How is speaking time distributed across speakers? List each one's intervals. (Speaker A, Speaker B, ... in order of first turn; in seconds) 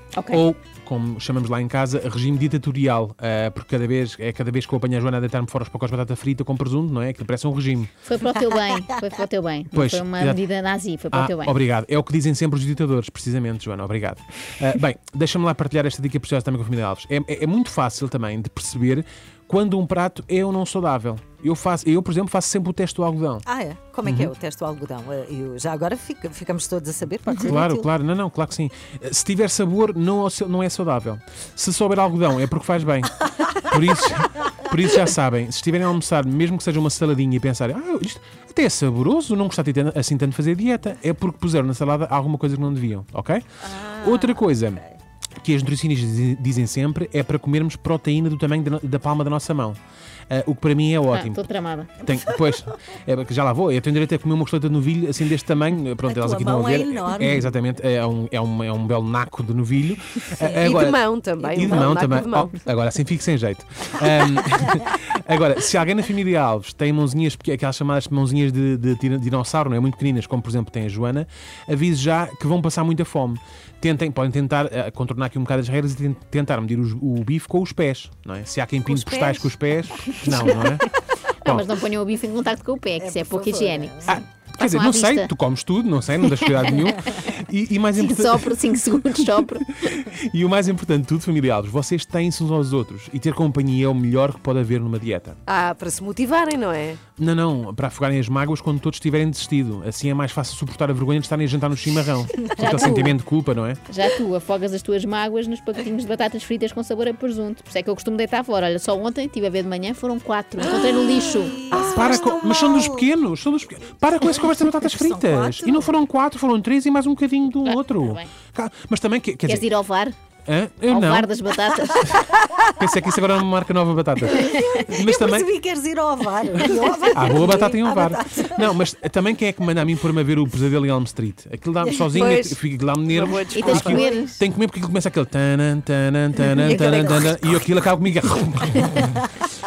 Speaker A: 0.1-0.4, 8.1-11.6, 51.1-52.0, 81.5-85.3, 88.0-89.7, 102.5-103.2, 103.9-112.2, 117.7-118.3, 119.5-120.2, 120.9-122.2, 133.6-134.3
Speaker B: 0.3-7.9, 9.7-10.4, 11.1-23.4, 24.0-24.3, 27.4-43.5, 44.0-44.8, 45.4-49.8, 50.3-51.5, 52.0-80.8, 81.5-81.8, 84.1-95.4, 97.2-103.8, 111.8-119.7, 120.5-121.3, 122.7-125.5, 127.1-139.2
Speaker C: 23.4-27.9, 43.6-45.0, 56.1-57.6, 60.4-60.8, 78.9-80.7, 83.0-84.2, 102.5-102.9, 110.6-113.1, 114.2-116.0, 124.3-128.8, 131.8-132.2, 133.6-134.4, 136.6-137.3, 138.8-139.4
Speaker D: 60.6-62.5, 95.5-97.0, 110.7-111.8, 132.1-132.6, 133.1-134.0, 136.6-137.3